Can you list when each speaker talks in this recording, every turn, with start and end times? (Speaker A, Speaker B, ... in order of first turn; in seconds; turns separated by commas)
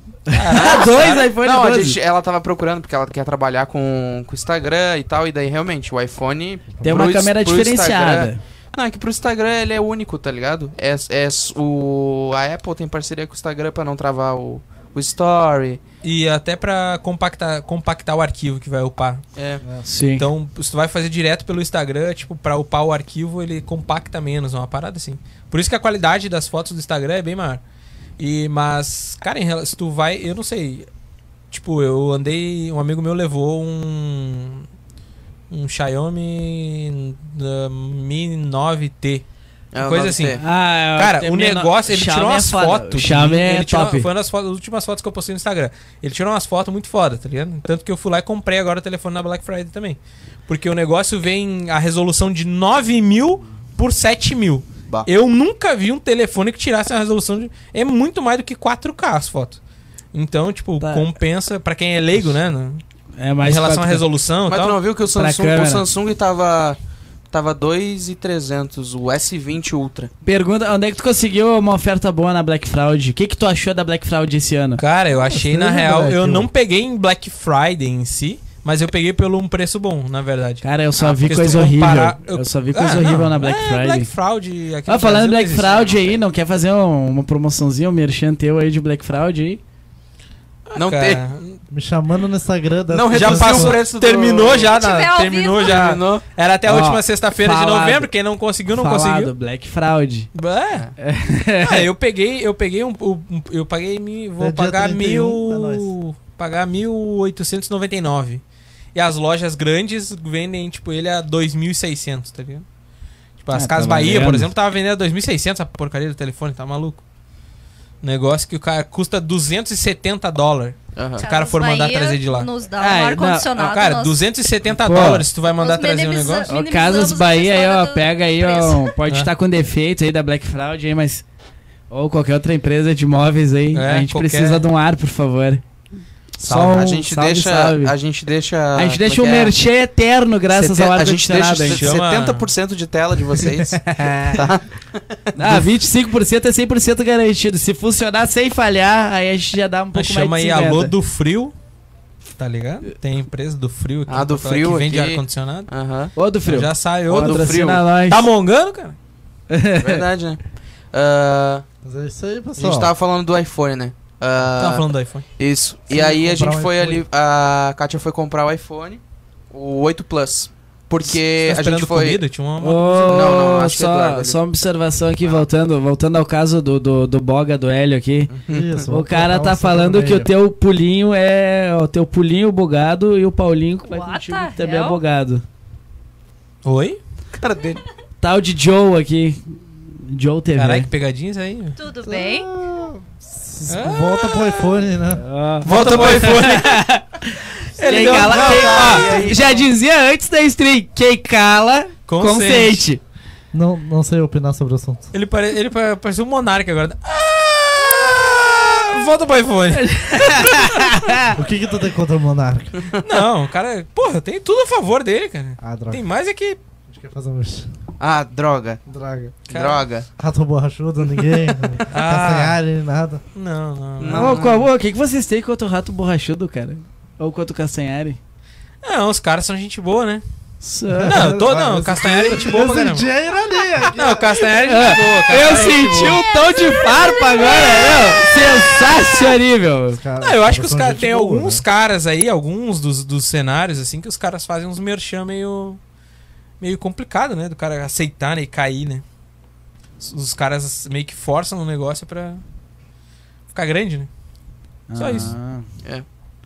Speaker A: 0.3-2.0, Speaker B: 0.3-1.3, Speaker C: 1.4-15.8, Speaker D: 6.7-7.0, Speaker A: 6.8-8.4, Speaker B: 16.0-19.2, Speaker C: 19.4-19.6, Speaker A: 19.8-20.3, Speaker B: 20.2-27.6, Speaker B: 28.2-30.9, Speaker B: 31.5-34.7, Speaker B: 35.5-39.2, Speaker C: 39.7-40.4, Speaker B: 39.8-40.4, Speaker A: 40.4-44.1, Speaker B: 40.9-59.6, Speaker B: 60.1-62.8, Speaker A: 60.8-61.1, Speaker A: 63.2-64.0, Speaker B: 63.4-64.8, Speaker C: 64.5-66.8, Speaker A: 65.1-65.8, Speaker C: 67.3-70.1, Speaker A: 70.2-74.8, Speaker B: 74.8-86.1, Speaker D: 75.2-76.5, Speaker A: 80.6-84.1, Speaker A: 84.9-89.6, Speaker C: 85.8-86.1, Speaker B: 90.7-91.6, Speaker C: 90.8-91.2, Speaker D: 91.7-93.8, Speaker C: 92.9-94.7, Speaker B: 93.1-99.3, Speaker E: 94.7-96.0, Speaker C: 95.6-96.2, Speaker A: 96.6-98.1, Speaker A: 98.7-100.3, Speaker B: 100.3-100.9, Speaker A: 101.0-101.9, Speaker B: 101.6-108.4, Speaker D: 104.4-105.9, Speaker B: 108.9-112.6, Speaker B: 113.4-117.0, Speaker A: 113.5-114.5, Speaker B: 118.0-122.5, Speaker C: 121.0-121.2, Speaker E: 121.2-124.2, Speaker A: 122.8-123.7, Speaker B: 123.6-126.5, Speaker A: 124.8-125.3, Speaker E: 125.5-129.0, Speaker A: 126.5-131.2, Speaker A: 131.9-135.6, Speaker B: 133.7-134.6, Speaker A: 136.4-137.9, Speaker C: 136.4-139.5, Speaker A: 138.7-141.9, Speaker C: 140.5-145.7, Speaker B: 141.6-142.5, Speaker A: 143.7-144.4, Speaker A: 145.3-150.9, Speaker B: 149.9-151.5, Speaker B: 152.4-155.7, Speaker C: 154.1-156.1, Speaker A: 156.2-158.3, Speaker B: 156.4-157.5, Speaker C: 157.1-157.8, Speaker B: 158.1-158.9, Speaker A: 159.5-160.1, Speaker C: 159.8-160.4, Speaker C: 160.9-161.6, Speaker D: 161.8-162.9, Speaker C: 162.6-164.8, Speaker B: 164.6-165.2, Speaker C: 165.4-172.2, Speaker D: 165.9-167.0, Speaker B: 171.0-173.4, Speaker A: 172.6-178.3, Speaker C: 173.1-174.4, Speaker C: 178.3-178.8, Speaker D: 178.5-180.3, Speaker A: 178.9-185.4, Speaker E: 183.9-185.0, Speaker B: 186.6-187.0, Speaker C: 187.3-187.8, Speaker A: 188.2-190.9, Speaker B: 190.6-191.8, Speaker E: 191.8-192.5, Speaker D: 192.0-195.2, Speaker B: 193.7-194.8, Speaker A: 195.2-203.0, Speaker B: 195.6-196.8, Speaker C: 195.7-196.4, Speaker B: 197.8-199.3, Speaker C: 197.9-199.7, Speaker B: 202.1-202.8, Speaker D: 203.5-205.1, Speaker B: 205.1-211.1, Speaker A: 209.7-211.3, Speaker D: 211.3-212.8, Speaker B: 213.0-216.6, Speaker D: 215.6-216.0, Speaker D: 216.9-217.7, Speaker C: 218.0-218.8, Speaker D: 218.9-219.4, Speaker C: 219.5-220.1, Speaker B: 219.5-219.8, Speaker D: 220.2-223.2, Speaker B: 221.9-222.6, Speaker B: 223.3-224.4, Speaker C: 224.0-224.7, Speaker A: 224.1-228.2, Speaker B: 228.8-230.2, Speaker A: 230.6-231.2, Speaker D: 230.9-234.6, Speaker B: 231.1-233.1, Speaker B: 233.9-236.2, Speaker A: 234.6-240.0, Speaker E: 235.7-239.3, Speaker D: 240.0-241.6, Speaker B: 240.2-245.8, Speaker B: 246.6-249.0, Speaker B: 250.0-252.4, Speaker B: 253.5-254.1, Speaker A: 254.9-255.7, Speaker B: 255.0-255.3